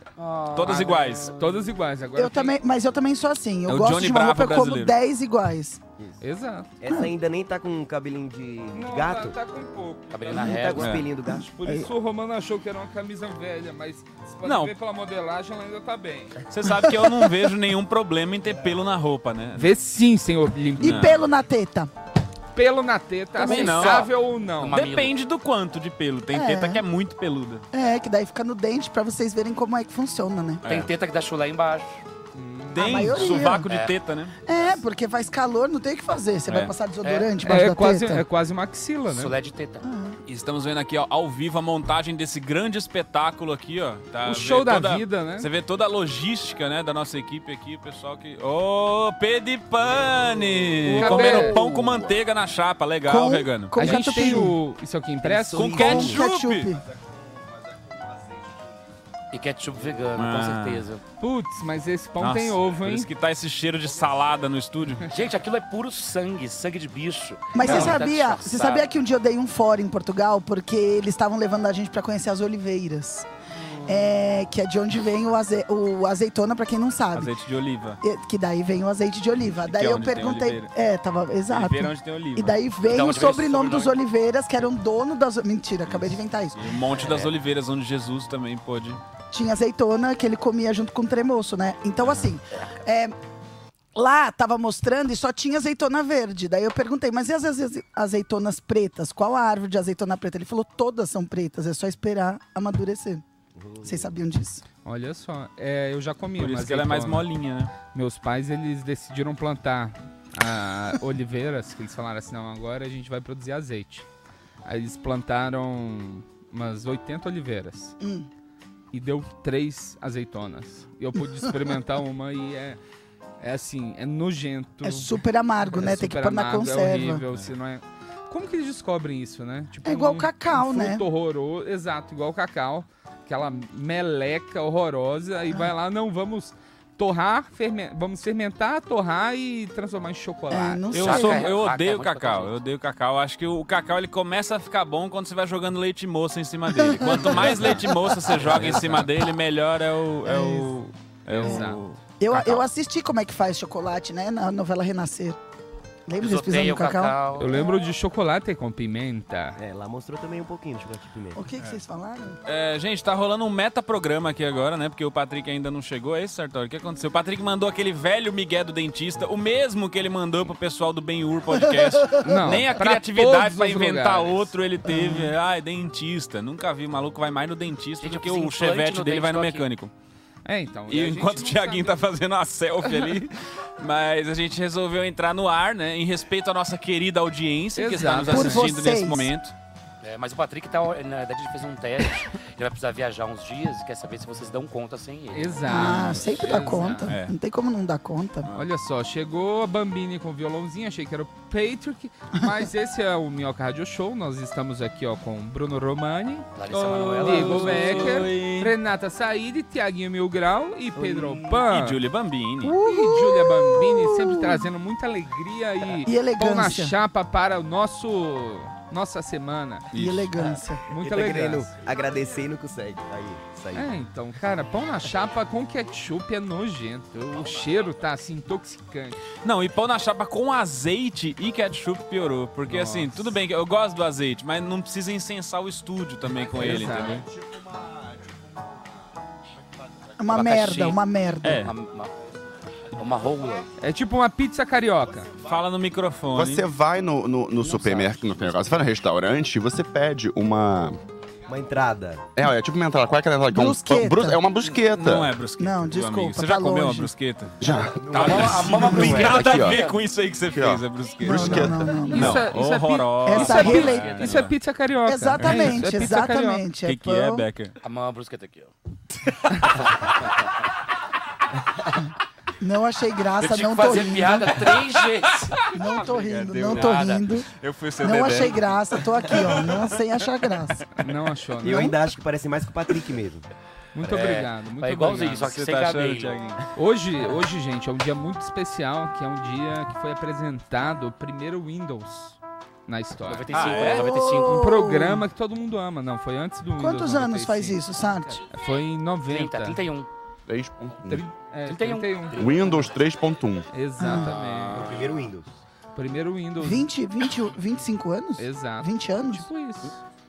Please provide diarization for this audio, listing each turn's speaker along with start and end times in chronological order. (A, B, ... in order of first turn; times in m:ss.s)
0:00.2-0:01.4 A
0:00.5-0:01.3 B
0:00.8-0:02.5 C
0:02.2-0:05.8 D
0:03.7-0:04.9 B
0:06.2-0:06.7 C
0:06.8-0:09.4 E
0:08.7-0:16.4 C
0:10.1-0:10.9 A
0:10.3-0:11.5 E
0:10.8-0:11.1 B
0:14.4-0:14.7 B
0:16.5-0:19.7 B
0:19.5-0:21.1 C
0:20.8-0:21.9 D
0:20.8-0:21.2 B
0:22.5-0:24.8 C
0:23.4-0:24.1 B
0:23.4-0:23.9 D
0:24.6-0:25.1 A
0:24.7-0:27.6 B
0:26.3-0:26.8 D
0:27.7-0:30.6 D
0:30.6-0:30.9 B
0:30.6-0:32.0 A
0:32.3-0:33.0 C
0:32.7-0:34.4 B
0:32.7-0:33.7 D
0:33.7-0:34.0 A
0:34.4-0:38.2 D
0:36.5-0:36.7 B
0:37.0-0:37.3 A
0:37.4-0:39.3 C
0:39.1-0:39.8 A
0:39.8-0:40.2 D
0:40.2-0:54.4 B
0:44.2-0:45.5 C
0:50.8-0:51.6 C
0:51.0-0:51.4 D
0:53.0-0:54.6 D
0:53.8-0:56.1 C
0:55.2-0:56.2 E
0:55.5-0:56.7 B
0:55.6-0:56.8 D
0:57.5-0:58.6 F
0:59.3-1:01.0 A
1:00.1-1:00.9 B
1:01.2-1:03.1 C
1:02.2-1:05.1 B
1:05.0-1:08.9 A
1:07.5-1:13.3 D
1:07.7-1:08.0 B
1:13.8-1:17.3 D
1:17.1-1:18.0 B
1:18.0-1:26.6 D
1:19.5-1:20.7 B
1:21.5-1:22.6 B
1:22.8-1:24.0 A
1:26.6-1:29.0 B
1:26.8-1:27.3 A
1:29.3-1:33.2 D
1:33.9-1:43.2 D
1:43.6-1:44.2 E
1:43.8-1:44.6 D
1:44.8-1:47.3 C
1:46.4-1:47.7 B
1:47.9-1:54.0 C
1:54.6-1:58.0 C
1:58.0-1:58.3 D
1:58.9-2:02.8 C
2:03.4-2:20.9 C
2:04.8-2:07.2 D
2:09.8-2:11.0 D
2:20.5-2:21.5 D
2:20.9-2:22.6 A
2:20.9-2:32.6 B
2:26.7-2:29.0 D
2:27.1-2:27.7 A
2:28.3-2:29.0 A
2:28.6-2:29.0 C
2:30.2-2:30.8 D
2:31.3-2:31.8 C
2:31.4-2:35.4 D
2:36.1-2:37.2 D
2:36.1-2:37.7 A
2:37.4-2:39.6 C
2:39.6-2:41.4 E
2:41.3-2:42.4 D
2:42.4-2:59.9 B
2:51.5-2:52.5 D
2:52.2-2:54.5 C
2:54.8-2:55.3 D
2:58.0-2:59.7 A
3:00.4-3:02.1 C
3:00.9-3:09.5 B
3:07.8-3:08.6 C
3:08.2-3:09.3 D
3:10.0-3:16.1 A
3:15.3-3:17.1 C
3:15.7-3:18.5 D
3:17.1-3:17.4 B
3:18.5-3:26.5 C
3:26.5-3:28.3 A
3:26.7-3:28.7 B
3:27.2-3:32.0 C
3:31.0-3:31.4 E
3:31.6-3:32.8 B
3:32.6-3:34.7 D
3:32.8-3:39.9 C
3:36.0-3:36.9 D
3:39.9-3:40.3 B
3:39.9-3:40.9 D
3:40.9-3:41.7 C
3:40.9-3:43.9 E
3:43.7-3:49.2 C
3:49.4-3:57.2 B
3:52.7-3:53.4 C
3:56.4-3:58.3 F
3:56.5-3:57.2 C
4:00.2-4:01.7 D
4:00.3-4:01.0 A
4:01.4-4:01.7 B
4:01.5-4:02.1 A
4:02.9-4:03.7 A
4:03.8-4:05.3 C
4:05.4-4:06.6 B
4:06.3-4:11.0 F
4:07.6-4:08.8 A
4:11.5-4:12.2 E
4:12.3-4:15.3 F
4:13.5-4:14.4 D
4:14.7-4:17.6 B
4:15.5-4:17.1 D
4:17.6-4:22.1 F
4:18.0-4:18.6 E
4:18.1-4:20.1 A
4:18.1-4:24.5 B
4:18.8-4:19.2 D
4:21.2-4:22.5 D
4:22.1-4:26.6 C
4:23.2-4:24.2 D
4:23.3-4:24.4 A
4:25.0-4:27.5 D
4:25.4-4:25.9 B
4:26.8-4:27.7 B
4:27.8-4:28.7 A
4:29.7-4:30.5 A
4:32.6-4:34.7 D
4:33.4-4:37.3 A
4:35.3-4:39.8 B
4:35.7-4:40.8 D
4:40.9-4:42.0 C
4:41.6-4:43.5 E
4:43.9-4:45.5 C
4:44.0-4:46.5 A
4:45.4-4:46.6 B
4:46.7-4:57.8 C
4:53.2-4:54.6 A
4:53.5-4:54.1 B
4:53.8-4:55.2 D
4:56.8-4:58.4 D
4:58.0-4:58.4 A
4:58.5-4:59.8 C
4:59.2-5:00.1 A
5:00.5-5:01.2 F
5:01.0-5:02.8 C
5:01.6-5:02.9 A
5:02.3-5:03.7 F
5:03.7-5:04.9 C
5:04.0-5:04.3 D
5:04.2-5:05.3 B
5:04.7-5:05.5 E
5:05.9-5:06.9 C
5:06.6-5:09.4 D
5:08.4-5:10.0 C